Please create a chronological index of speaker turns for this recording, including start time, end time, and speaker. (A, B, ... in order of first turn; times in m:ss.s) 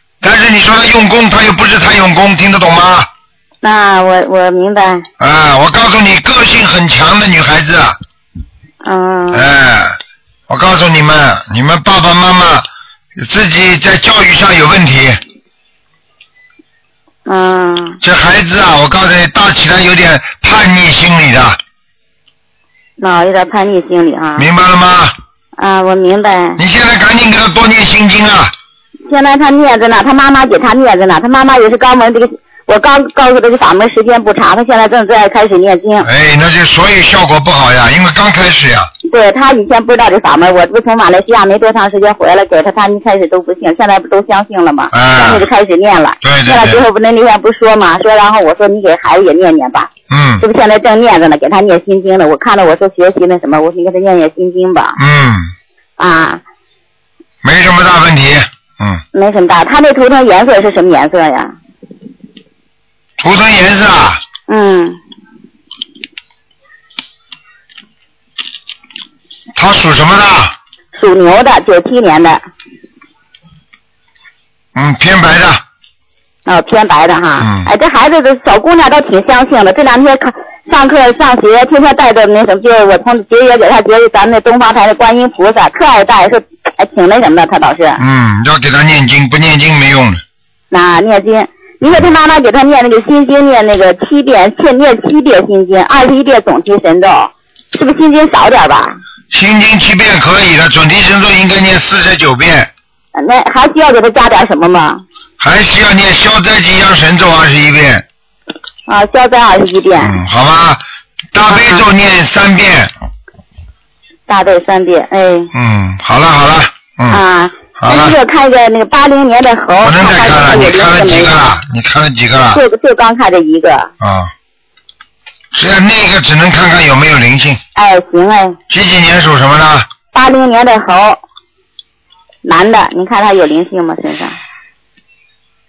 0:00.2-0:03.1 A
0:03.6-0:05.0 B
0:05.2-0:08.0 A
0:08.8-0:09.5 B
0:09.3-0:10.0 A
0:10.5-0:15.2 A
0:17.2-0:18.0 B
0:18.0-0:21.6 A
0:23.0-0:24.5 B
0:24.4-0:25.1 A
0:25.6-0:26.6 B
0:26.6-0:28.5 A
0:29.1-0:36.1 B
0:36.0-0:38.9 A
0:39.0-0:55.0 B
0:44.9-0:45.5 A
0:46.2-0:46.8 A
0:50.1-0:50.4 A
0:55.0-0:55.5 A
0:56.0-0:56.4 B
0:57.4-0:59.0 A
0:59.1-1:01.5 B
1:03.2-1:04.2 A
1:04.5-1:05.0 B
1:09.5-1:10.5 A
1:10.9-1:12.4 B
1:14.7-1:15.6 A
1:16.4-1:28.0 B
1:17.4-1:17.7 A
1:28.0-1:30.2 A
1:30.7-1:39.0 B
1:39.3-1:42.7 A
1:43.1-1:45.0 B
1:45.4-1:48.0 A
1:48.9-1:50.2 B
1:50.0-1:50.8 A
1:51.3-1:52.9 A
1:51.5-1:51.8 B
1:54.3-1:55.5 B
1:55.5-1:57.2 A
1:57.1-2:01.4 B
1:57.8-1:58.2 A
1:59.8-2:02.6 A
2:02.5-2:03.9 B
2:04.0-2:04.3 A
2:05.5-2:07.6 A
2:07.8-2:08.6 B
2:08.7-2:09.9 A
2:10.1-2:11.2 B
2:12.4-2:14.4 B